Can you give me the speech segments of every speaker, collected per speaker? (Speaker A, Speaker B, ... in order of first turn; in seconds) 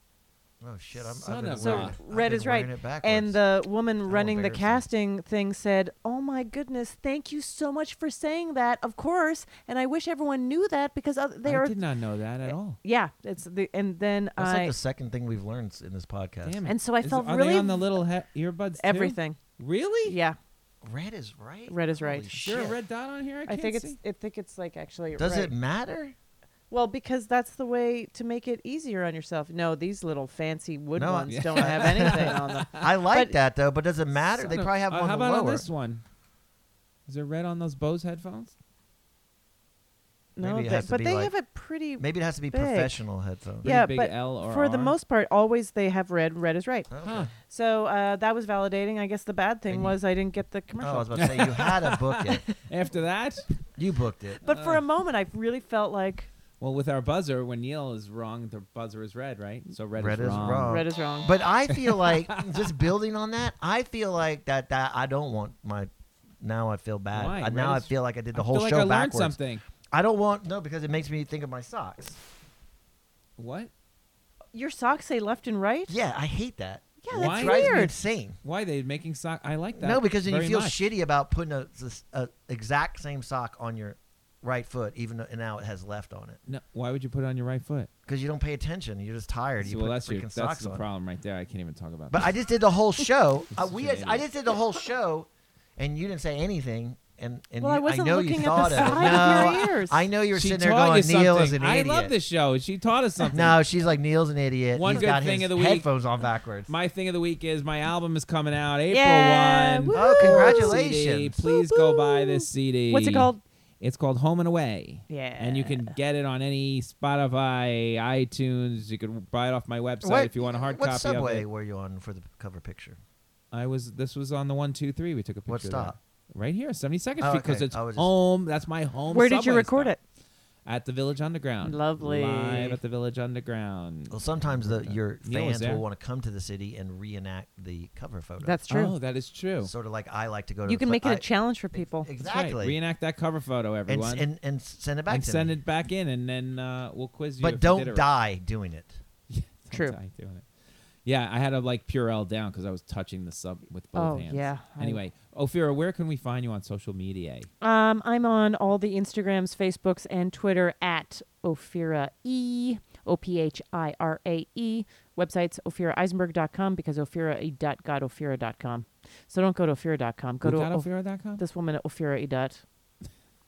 Speaker A: 0.6-3.4, 4.0-4.8, 14.3-16.6, 20.8-22.8, 25.2-26.1, 30.9-35.7, 40.4-41.3, 42.0-43.7, 46.9-47.3, 49.7-49.9, 50.8-52.4, 53.8-54.4, 59.9-65.9, 66.4-69.4, 69.9-72.2, 75.9-78.4, 79.7-86.4, 88.0-90.8, 92.1-102.1, 103.3-106.7, 109.9-111.4, 120.0-123.0, 125.5-126.0, 127.2-128.1, 134.1-138.6, 139.6-142.8, 143.9-145.6, 147.4-149.0
Speaker B: 1.1-2.0, 11.4-12.8, 16.4-20.1, 22.4-24.0, 31.3-32.9, 34.5-36.0, 37.1-38.5, 43.6-44.9, 47.0-47.3, 51.1-53.4, 54.5-54.8, 56.6-60.8, 61.7-62.7, 67.1-69.6, 73.4-73.7, 77.1-77.9, 78.4-80.8, 86.5-87.9, 89.6-92.3, 93.5-94.2, 98.5-99.7, 100.3-103.6, 104.7-105.9, 106.7-121.5, 123.5-130.0, 130.7-135.8, 138.7-139.7, 142.2-144.3, 145.1-148.1, 149.3-150.5, 151.0-157.5, 170.4-171.4
Speaker C: 1.6-11.8, 12.4-14.7, 16.6-17.9, 18.8-19.4, 20.0-20.4, 21.7-22.3, 23.4-25.5, 26.7-33.4, 40.4-43.0, 43.6-46.9, 47.5-51.6, 54.4-56.3, 60.7-61.3, 74.5-75.9, 77.0-77.9, 97.6-100.0, 108.9-110.8, 111.4-113.4, 115.1-115.9, 129.1-130.0, 131.6-132.8, 138.4-138.9, 140.7-142.1, 149.7-149.9, 153.9-155.0, 157.6-172.6